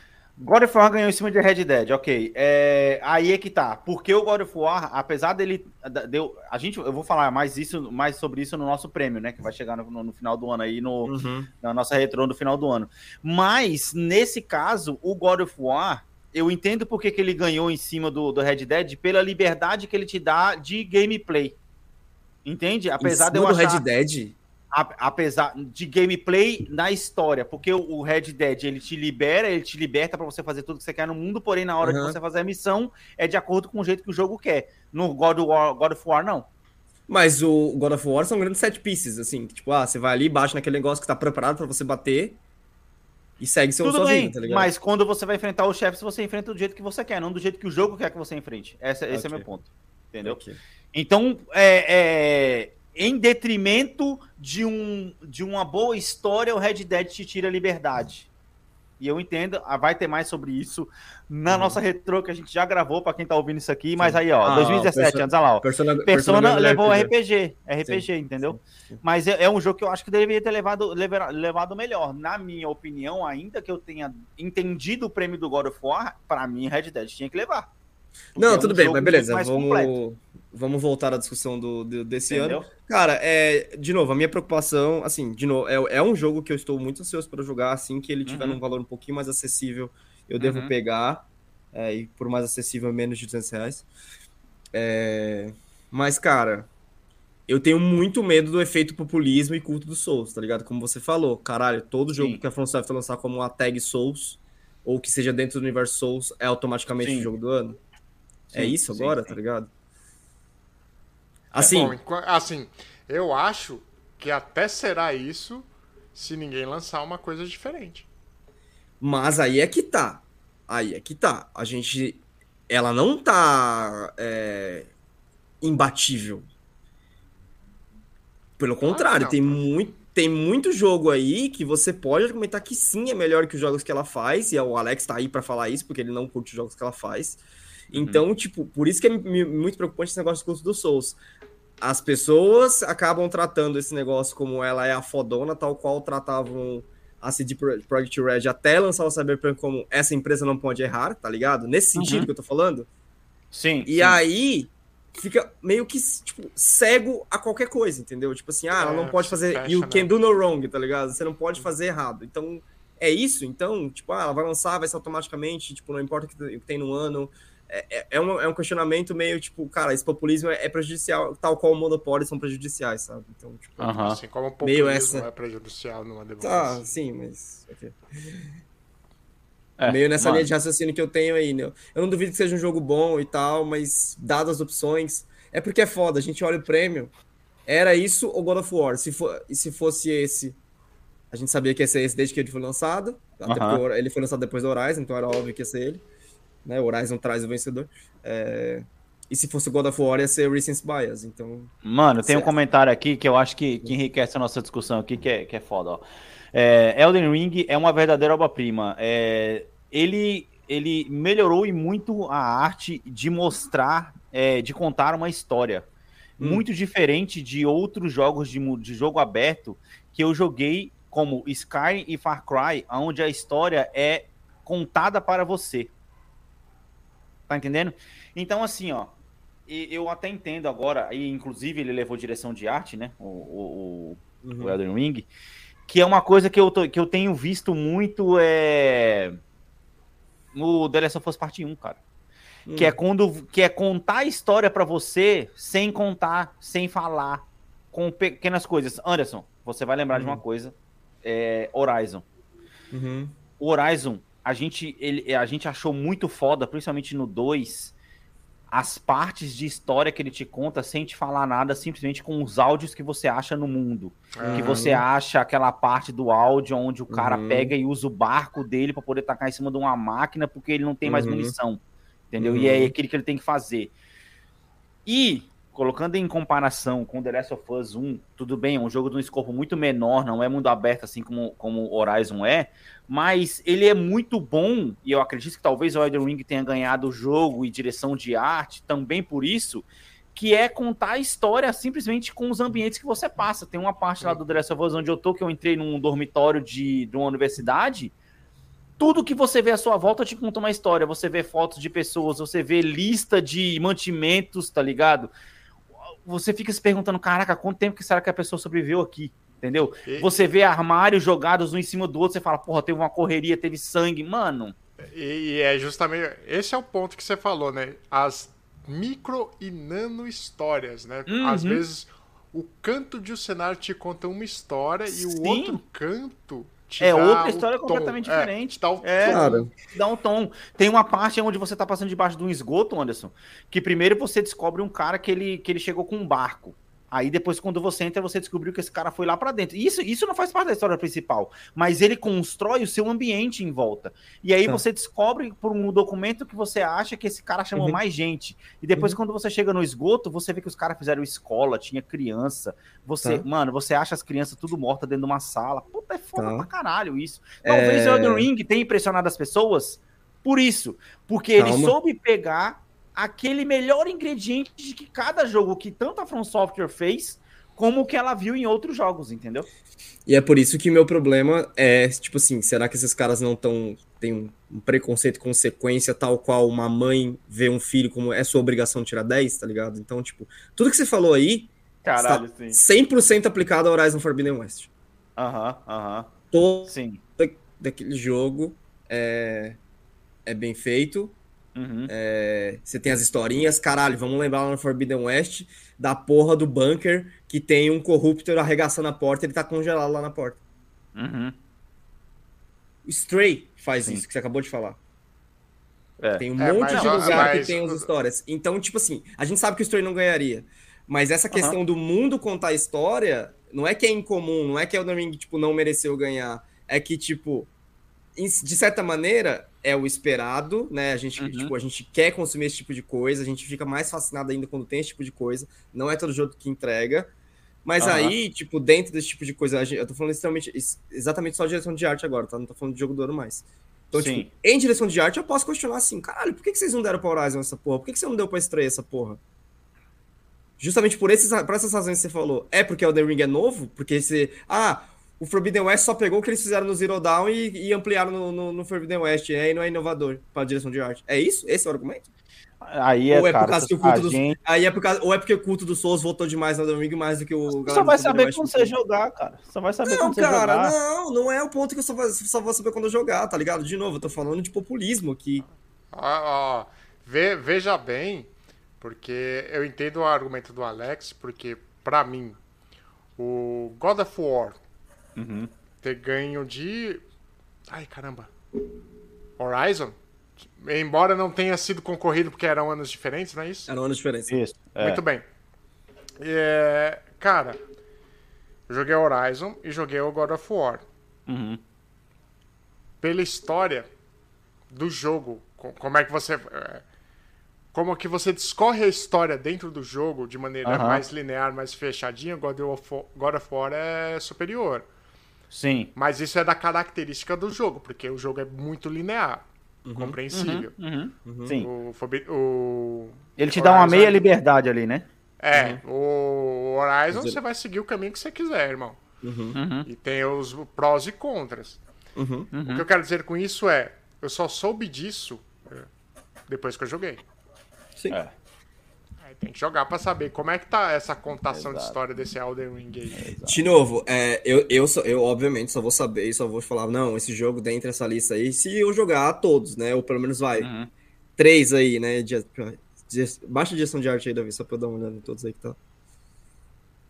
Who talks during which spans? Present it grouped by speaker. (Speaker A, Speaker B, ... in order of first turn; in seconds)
Speaker A: 0.4-21.6, 22.4-23.9, 24.7-36.5, 43.8-50.4, 50.9-58.3, 59.0-77.7, 78.4-80.0, 82.3-82.7, 88.3-88.6, 90.4-90.7, 107.0-107.3, 108.5-109.4, 137.9-138.2, 152.0-152.3, 153.5-154.2, 173.8-174.2, 179.8-180.5, 193.4-193.8, 201.8-215.9, 216.4-225.9, 227.5-229.1, 229.7-235.3, 235.9-239.4, 240.6-242.0, 242.8-252.2, 253.6-257.9, 258.7-271.8, 272.3-273.9, 275.1-298.1, 299.0-305.3, 306.2-314.8, 321.3-321.8, 325.1-325.8, 327.0-369.7, 382.0-382.8, 385.4-386.3, 386.9-387.2, 391.8-392.1, 401.1-401.6, 406.2-407.7, 421.4-421.7, 428.0-428.4, 434.1-434.5, 452.8-454.6, 457.8-460.9, 475.4-475.7, 484.5-485.2, 491.5-491.8, 500.9-501.2, 505.7-506.1, 510.5-511.9, 513.6-515.3, 519.8-520.1, 522.7-523.1, 531.7-532.2, 533.4-533.8, 540.8-541.1
Speaker B: 11.1-11.5, 23.0-24.4, 31.8-32.2, 37.1-42.4, 43.4-44.7, 49.1-49.5, 50.2-50.6, 61.5-61.8, 64.0-67.1, 67.8-69.0, 78.4-93.9, 94.7-96.7, 97.5-107.8, 108.5-109.7, 111.5-112.0, 119.0-124.9, 125.6-126.5, 128.6-141.2, 141.8-152.9, 153.9-173.8, 174.6-175.3, 176.4-178.4, 179.8-187.1, 187.7-190.6, 191.3-196.0, 196.7-201.7, 202.2-202.5, 216.4-216.6, 234.4-234.8, 242.7-243.0, 250.1-250.4, 252.9-253.3, 264.4-265.0, 267.1-267.7, 271.1-271.5, 272.4-272.9, 329.3-329.7, 356.4-356.7, 357.6-358.5, 361.6-361.9, 370.3-384.9, 386.5-389.8, 390.5-391.4, 392.1-400.6, 403.1-405.0, 406.4-417.7, 418.4-427.3, 427.9-439.4, 440.8-452.3, 453.3-458.9, 460.1-465.6, 483.9-484.6, 510.1-510.4, 511.4-511.7, 515.7-516.0, 517.3-517.6, 519.4-519.8, 522.4-522.7, 533.7-540.9, 541.6-546.0
Speaker C: 111.7-118.1, 128.8-129.7, 158.7-160.1, 173.8-177.0, 264.4-264.8, 315.1-329.6, 406.6-408.1, 466.1-472.6, 473.4-474.8, 476.0-477.2, 477.9-478.5, 479.6-480.2, 480.8-483.9, 485.0-485.4, 486.4-487.8, 488.9-491.1, 493.2-494.1, 494.9-497.0, 497.9-505.1, 506.1-510.9, 511.7-514.4, 515.6-519.2, 520.0-522.0, 522.8-526.1, 526.7-527.4, 529.4-533.5